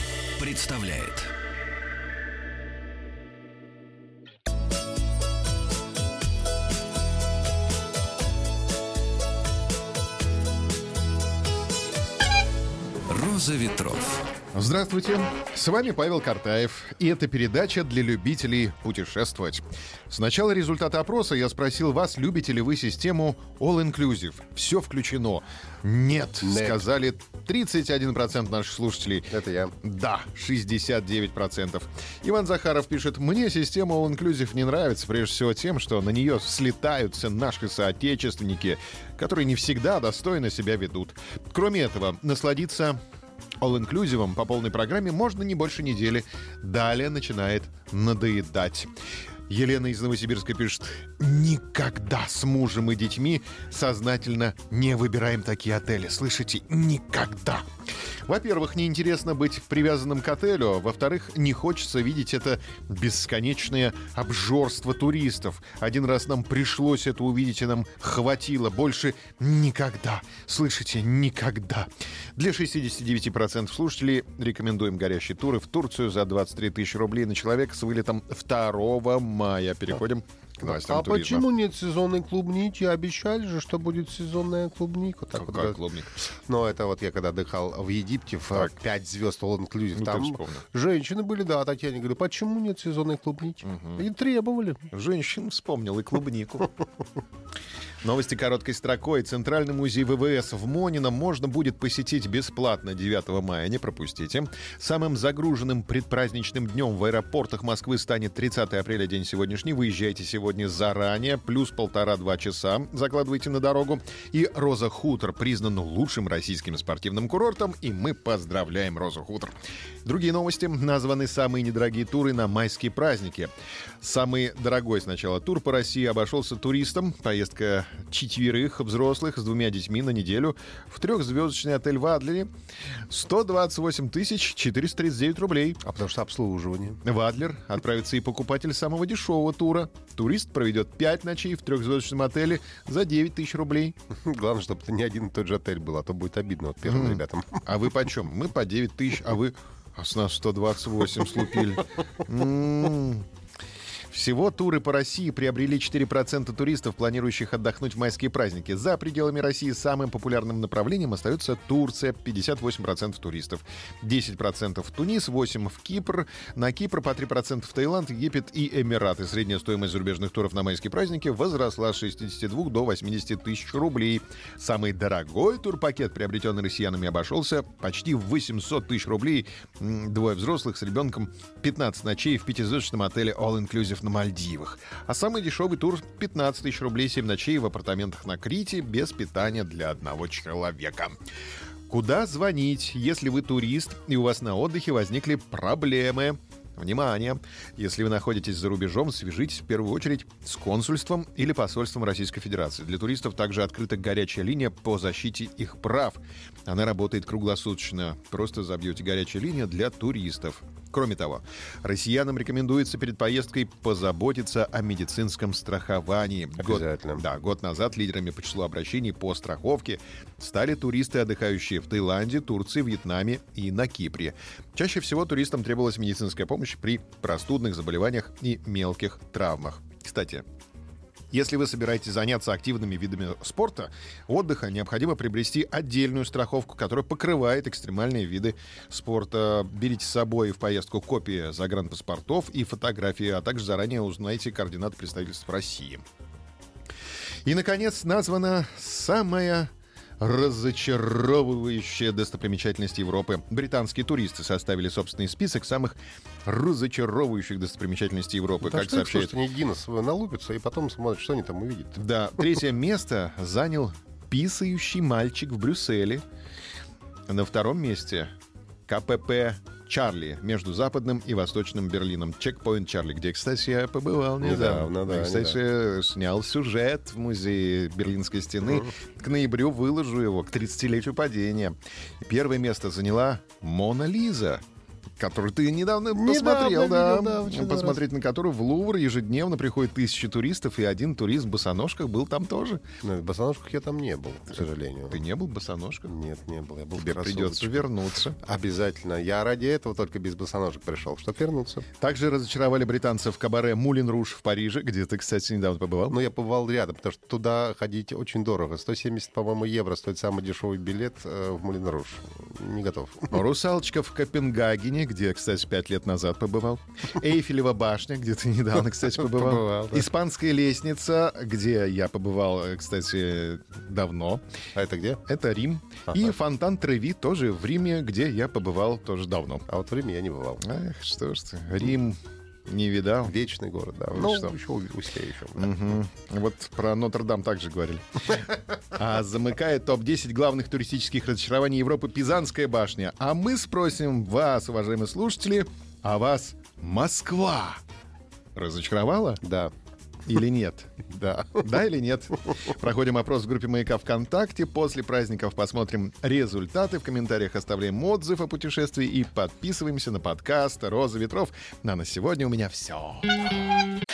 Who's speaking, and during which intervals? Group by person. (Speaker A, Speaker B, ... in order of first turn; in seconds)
Speaker A: 0.3-1.3, 13.1-14.2
Speaker B: 14.5-29.3, 29.8-43.0, 43.6-48.9, 49.5-57.6, 58.2-81.5, 85.3-86.1, 89.9-90.6, 93.6-94.0, 94.9-96.7, 98.0-119.5, 120.0-132.5, 133.1-135.8, 137.0-143.9, 146.8-153.2, 154.1-191.2, 191.9-230.4, 231.3-246.0, 247.4-259.4, 261.9-266.2, 267.3-268.3, 268.9-284.6, 285.2-292.8, 294.6-296.1, 297.0-298.4, 302.0-306.2, 313.3-324.4, 325.2-329.6, 330.6-333.4, 334.1-334.6, 335.6-347.8, 348.6-349.4, 350.2-363.4
Speaker C: 26.4-26.8, 29.3-29.7, 80.6-94.9, 135.8-137.0, 144.2-147.6, 216.6-217.2, 258.6-262.0, 274.4-275.6, 286.1-288.0, 293.0-295.2, 296.0-297.9, 298.4-301.8, 306.1-313.4, 319.4-320.0, 324.7-325.2, 329.7-330.6, 333.2-335.7, 349.4-349.7